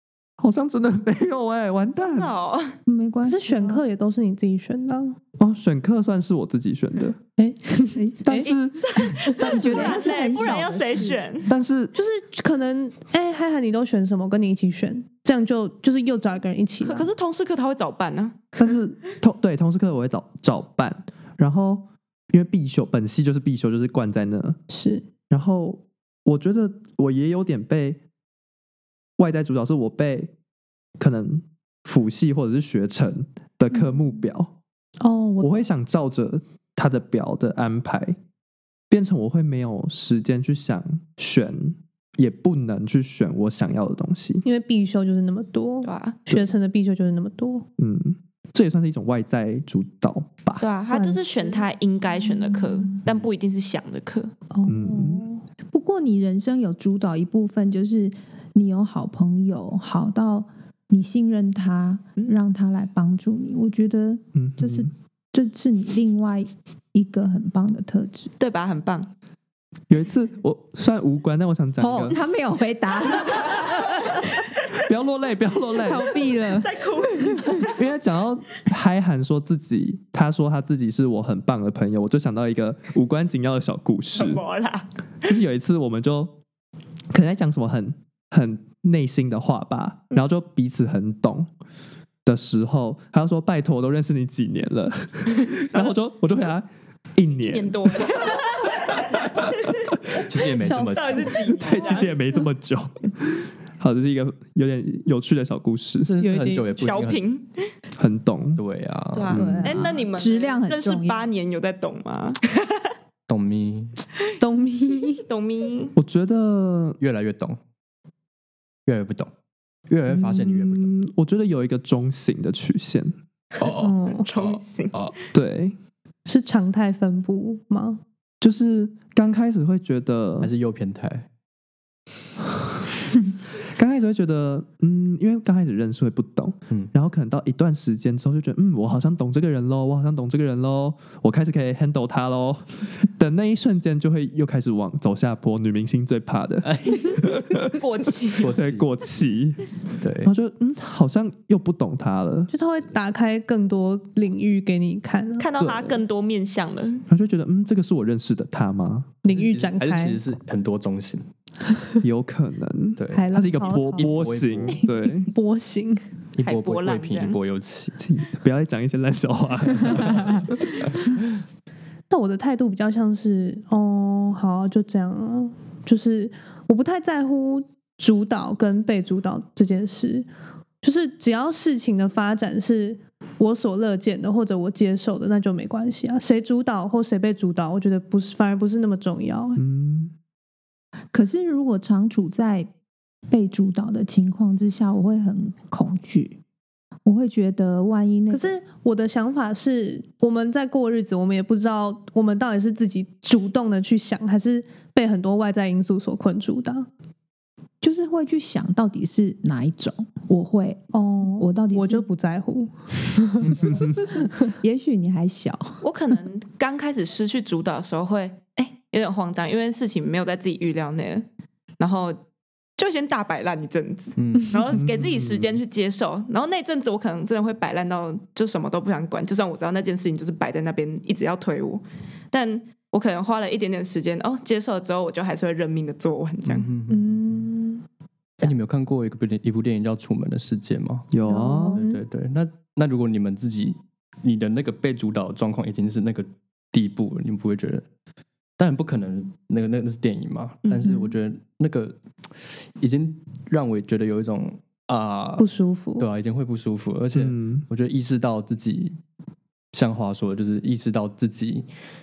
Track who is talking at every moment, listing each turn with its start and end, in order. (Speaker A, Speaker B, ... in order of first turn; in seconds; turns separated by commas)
Speaker A: 0.4-2.3, Speaker B: 2.1-2.8, Speaker C: 2.9-3.8, Speaker D: 3.3-5.2, Speaker A: 5.4-7.2, Speaker D: 7.4-8.5, Speaker C: 8.0-8.5, Speaker A: 8.2-9.0, Speaker B: 8.9-11.5, Speaker D: 9.3-10.1, Speaker C: 9.4-11.2, Speaker A: 11.5-11.9, Speaker D: 11.9-17.1, Speaker B: 16.8-18.6, Speaker A: 18.6-24.6, Speaker D: 24.7-25.1, Speaker A: 25.3-28.0, Speaker A: 29.2-30.3, Speaker A: 31.0-34.5, Speaker D: 35.0-35.6, Speaker A: 35.4-38.2, Speaker A: 38.9-44.4, Speaker D: 44.4-47.7, Speaker B: 45.8-46.2, Speaker A: 47.8-50.7, Speaker B: 50.6-54.3, Speaker D: 50.9-51.6, Speaker D: 54.5-55.4, Speaker A: 54.7-55.3, Speaker C: 55.7-68.3, Speaker A: 64.3-64.9, Speaker B: 68.4-69.1, Speaker A: 69.9-72.2, Speaker C: 71.8-74.3, Speaker A: 74.8-76.2, Speaker C: 75.8-77.6, Speaker B: 76.4-77.7, Speaker A: 77.7-84.4, Speaker B: 84.2-84.9, Speaker A: 85.2-86.3, Speaker A: 87.1-91.5, Speaker A: 92.2-98.4, Speaker B: 97.3-99.1, Speaker E: 100.2-101.4, Speaker B: 100.6-102.4, Speaker D: 100.7-102.0, Speaker A: 101.5-106.1, Speaker E: 106.1-107.2, Speaker D: 106.2-106.7, Speaker B: 106.8-107.7, Speaker A: 108.0-108.6, Speaker E: 108.6-109.4, Speaker B: 109.1-112.5, Speaker A: 109.3-109.9, Speaker C: 109.3-111.3, Speaker E: 113.3-114.0, Speaker D: 114.4-115.2, Speaker B: 115.2-116.0, Speaker A: 116.0-117.0, Speaker E: 117.0-117.6, Speaker E: 118.9-119.3, Speaker E: 119.9-120.9, Speaker A: 120.1-123.2, Speaker E: 123.6-125.2, Speaker D: 123.8-124.3, Speaker B: 124.1-125.0, Speaker A: 125.3-125.8, Speaker D: 126.3-128.0, Speaker A: 128.4-130.5, Speaker E: 130.4-131.2, Speaker A: 133.8-147.8, Speaker E: 146.7-147.2, Speaker B: 147.8-148.5, Speaker E: 148.4-148.9, Speaker A: 148.5-149.7, Speaker E: 150.0-150.3, Speaker A: 150.2-152.5, Speaker D: 152.5-155.5, Speaker B: 155.4-157.1, Speaker A: 155.6-156.0, Speaker A: 157.1-159.1, Speaker D: 159.2-160.2, Speaker E: 159.3-161.3, Speaker A: 162.0-165.3, Speaker E: 163.0-164.8, Speaker D: 163.1-164.1, Speaker D: 164.8-166.0, Speaker E: 166.4-168.0, Speaker B: 166.4-167.4, Speaker A: 168.0-170.5, Speaker D: 172.1-180.3, Speaker D: 180.8-189.6, Speaker A: 189.6-190.1, Speaker C: 191.1-192.7, Speaker C: 193.3-196.4, Speaker C: 197.1-198.5, Speaker D: 198.3-206.9, Speaker C: 207.8-212.0, Speaker D: 210.9-214.3, Speaker C: 214.6-215.8, Speaker B: 215.8-221.3, Speaker B: 221.8-222.2, Speaker B: 222.8-236.7, Speaker E: 224.2-224.6, Speaker A: 224.7-225.5, Speaker E: 236.5-237.4, Speaker D: 236.9-237.8, Speaker E: 238.4-241.1, Speaker A: 241.1-241.8, Speaker C: 241.2-241.8, Speaker D: 241.3-242.0, Speaker E: 241.8-247.8, Speaker E: 248.6-252.0, Speaker B: 250.7-250.9, Speaker E: 252.8-255.5, Speaker D: 255.4-256.1, Speaker E: 256.0-258.9, Speaker A: 257.1-257.6, Speaker E: 259.7-261.7